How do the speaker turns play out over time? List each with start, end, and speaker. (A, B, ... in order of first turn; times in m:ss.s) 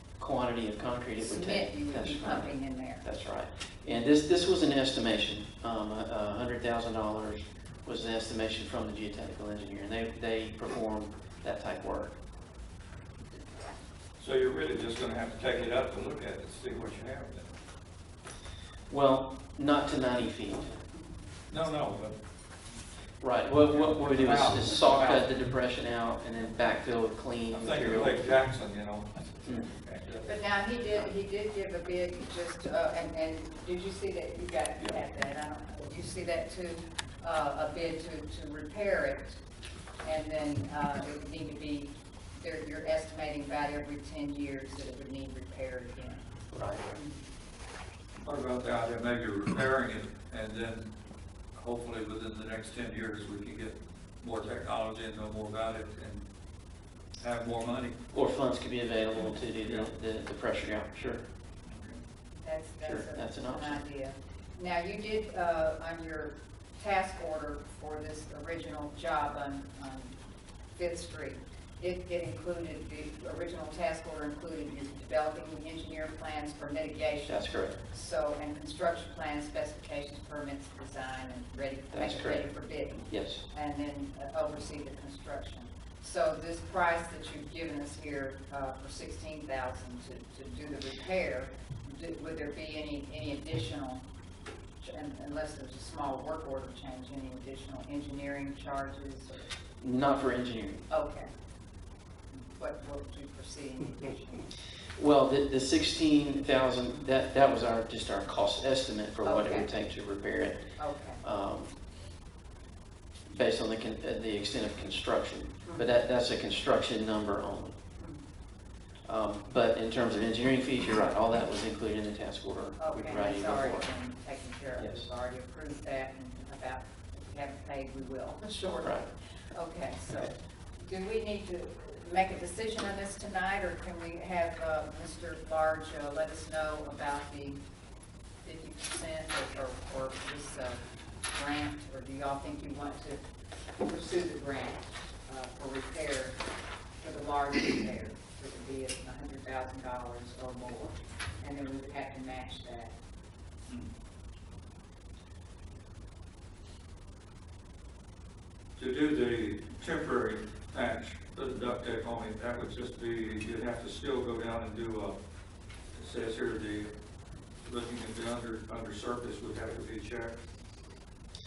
0:00.2-0:12.2 A
0:01.2-0:03.0 B
0:14.2-0:17.5 C
0:18.9-0:20.7 A
0:21.5-0:22.2 C
0:23.2-0:28.2 A
0:23.7-0:25.3 C
0:27.5-0:30.3 C
0:30.2-0:39.4 B
0:40.0-0:46.3 B
0:46.5-0:46.9 A
0:46.9-0:47.2 B
0:48.2-0:50.9 C
0:51.5-0:56.2 C
0:57.2-0:58.0 C
0:58.1-1:01.2 A
0:59.3-0:59.9 C
1:01.6-1:02.0 C
1:02.4-1:10.1 B
1:02.8-1:03.8 A
1:10.8-1:34.0 B
1:17.3-1:17.8 A
1:21.9-1:22.5 A
1:23.1-1:23.4 A
1:34.8-1:39.5 B
1:39.8-1:40.8 A
1:40.9-1:41.3 B
1:42.3-1:44.4 B
1:45.0-1:50.7 A
1:49.2-1:49.6 B
1:50.8-1:51.2 B
1:51.2-1:51.7 A
1:53.3-1:57.8 A
1:59.0-2:03.8 A
2:02.8-2:17.6 B
2:04.8-2:05.1 A
2:18.4-2:23.2 B
2:23.8-2:26.4 B
2:27.0-2:33.0 B
2:38.8-2:45.2 C
2:45.9-2:46.9 C
2:47.6-2:50.4 C